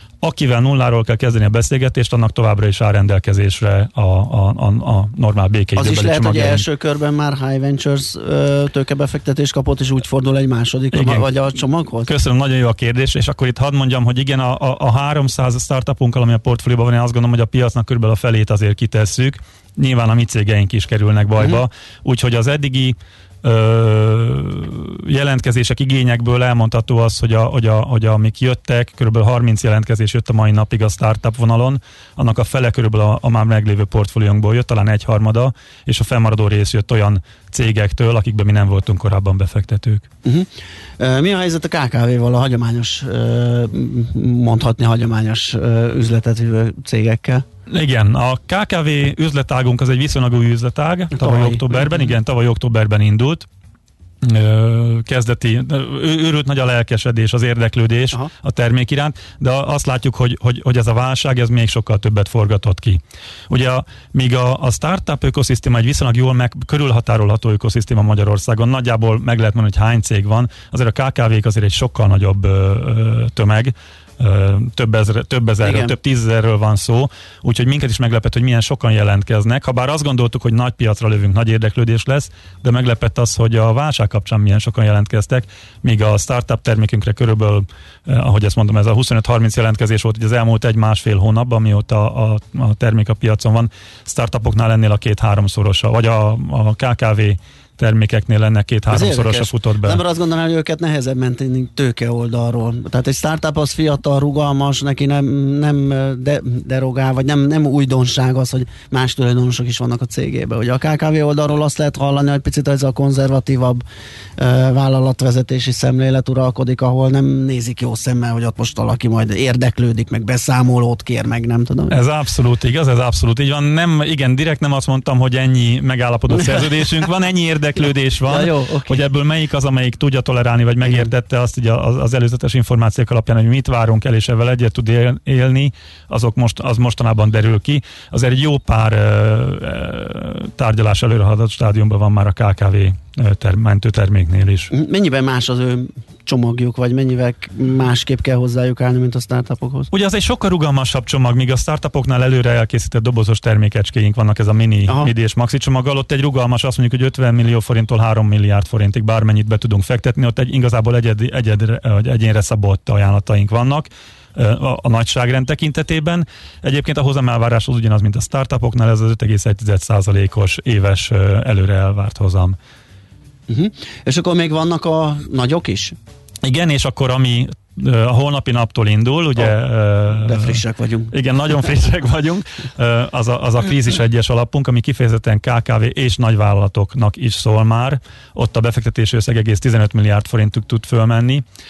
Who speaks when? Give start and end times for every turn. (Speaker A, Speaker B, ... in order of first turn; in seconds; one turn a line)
Speaker A: 0.2-6.6
Speaker B: 5.8-12.1
Speaker A: 10.9-11.3
Speaker A: 12.1-40.1
Speaker B: 40.2-47.4
Speaker A: 47.7-53.5
Speaker B: 51.1-51.6
Speaker A: 54.2-100.0
Speaker B: 75.6-75.9
Speaker B: 98.9-113.8
Speaker B: 114.4-122.0
Speaker A: 121.9-144.7
Speaker B: 128.3-129.0
Speaker B: 130.8-131.1
Speaker B: 144.7-149.9
Speaker A: 149.9-172.6
Speaker B: 173.5-175.9
Speaker A: 176.4-180.6
Speaker B: 180.1-181.1
Speaker A: 181.1-191.4